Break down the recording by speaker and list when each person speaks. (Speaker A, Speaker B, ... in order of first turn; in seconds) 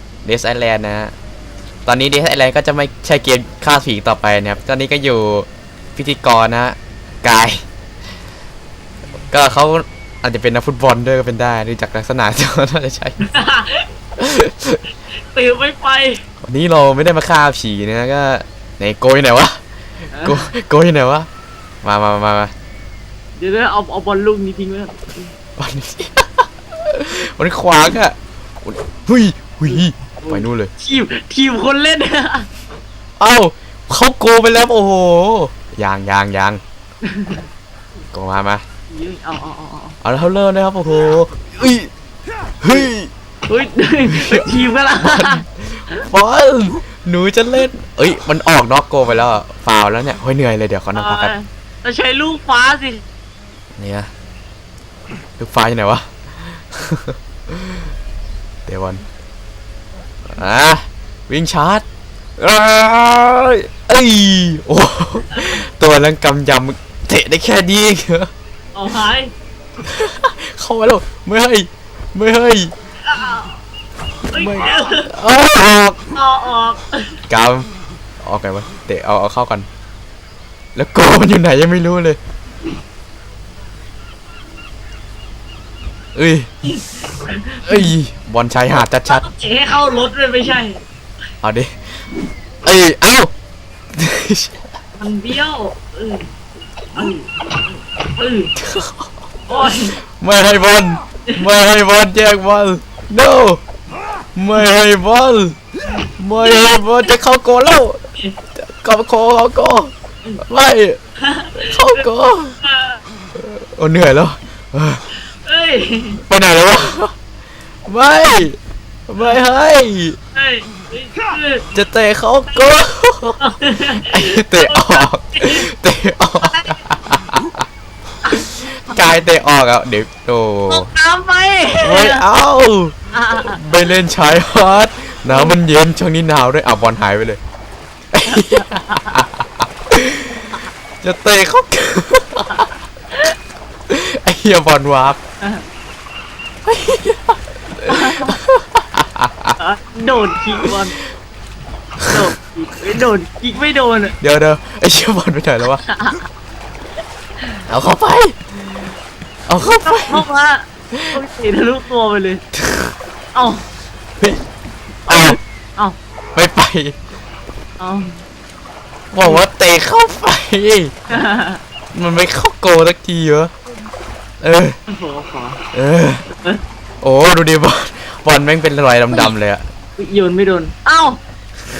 Speaker A: 0.2-1.1, 1.9-7.6, 9.3-13.2, 14.2-14.8, 16.4-19.6, 20.2-21.3, 21.8-22.5, 25.6-30.7, 33.2-36.6, 38.1-38.6, 40.0-41.9, 42.6-43.1, 44.0-44.5, 45.0-51.3, 53.8-54.1, 55.4-57.8, 58.7-59.0, 60.3-61.9, 62.4-68.3, 69.8-72.7, 74.3-76.0, 77.3-77.7, 78.2-79.7, 80.7-82.2, 86.1-86.5, 87.7-89.2, 91.4-91.8, 92.6-93.3, 93.9-94.6, 98.6-99.0, 99.7-103.6, 104.3-105.6, 106.2-108.0, 108.6-111.0, 111.5-112.6, 113.4-115.0, 116.2-117.1, 117.9-118.6, 119.1-120.2, 121.7-123.4, 124.0-127.6, 128.4-130.9, 131.8-137.4, 138.1-140.4, 141.0-142.7, 143.9-145.2, 146.7-149.6, 154.2-155.8, 157.7-158.3, 159.5-160.2, 162.6-162.9, 165.1-165.4, 166.3-166.9, 169.1-170.9, 171.9-173.5, 174.4-174.8, 175.7-176.3, 177.0-179.7
Speaker B: 13.2-13.9, 15.3-16.2, 20.2-20.5, 23.4-25.3, 29.7-32.5, 37.0-37.5, 38.9-40.0, 43.5-45.4, 51.0-53.0, 68.7-69.3, 73.0-73.6, 74.3-75.1, 76.1-77.2, 86.6-87.9, 89.1-90.8, 95.0-96.3, 96.9-98.5, 99.5-100.0, 106.4-107.0, 111.2-112.1, 112.6-113.0, 115.3-116.2, 120.3-121.7, 123.4-125.7, 126.4-126.8, 130.7-132.2, 133.1-133.6, 135.3-135.6, 138.3-139.3, 147.9-148.4, 149.6-151.0, 152.1-154.2, 155.8-156.3, 159.8-162.4, 163.3-163.7, 165.1-166.0, 167.8-168.2, 171.1-171.6, 174.9-175.6, 176.3-176.6, 180.0-181.2